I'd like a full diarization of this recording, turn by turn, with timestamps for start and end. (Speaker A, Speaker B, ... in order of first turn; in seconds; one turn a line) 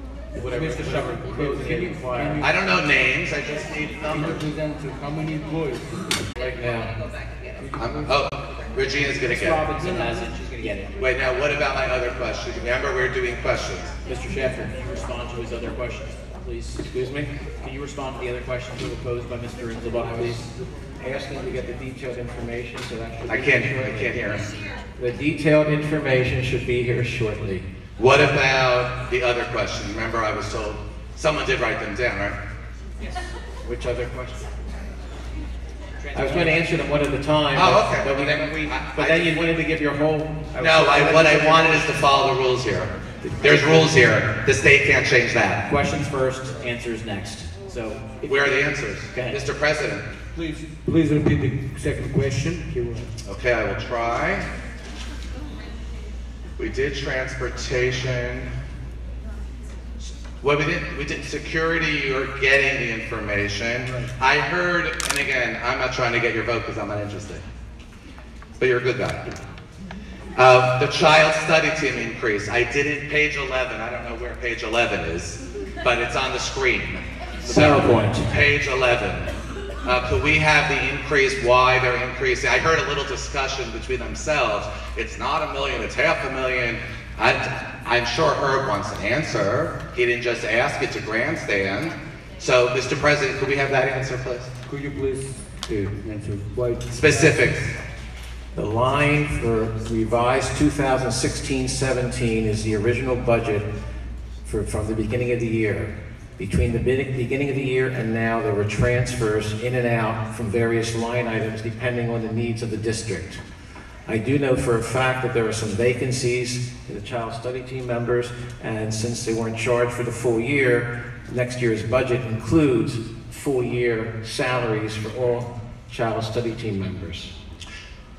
Speaker A: 0.3-2.5
Speaker B: 0.4-2.5
Speaker C: 2.4-4.4
Speaker B: 4.1-6.5
Speaker A: 6.5-6.9
Speaker B: 7.6-8.1
Speaker C: 7.8-9.6
Speaker D: 9.2-10.9
Speaker B: 9.8-10.2
Speaker C: 11.0-13.9
Speaker D: 14.1-16.9
Speaker A: 16.8-17.3
Speaker D: 17.6-20.5
Speaker A: 20.0-20.5
Speaker A: 21.0-24.1
Speaker C: 23.3-24.5
Speaker A: 25.0-27.6
Speaker C: 28.0-32.4
Speaker A: 33.6-34.5
Speaker D: 36.0-36.7
Speaker A: 36.1-42.0
Speaker C: 37.5-39.4
Speaker C: 40.6-45.6
Speaker D: 45.6-48.3
Speaker C: 48.2-50.0
Speaker D: 49.1-49.4
Speaker B: 50.3-53.1
Speaker C: 53.2-54.5
Speaker C: 56.6-58.5
Speaker C: 60.4-67.4
Speaker C: 68.6-69.3
Speaker C: 70.3-79.3
Speaker D: 77.4-78.3
Speaker C: 79.8-94.5
Speaker B: 94.7-97.4
Speaker C: 96.9-97.7
Speaker A: 98.5-103.7
Speaker A: 104.4-113.4
Speaker A: 114.1-127.3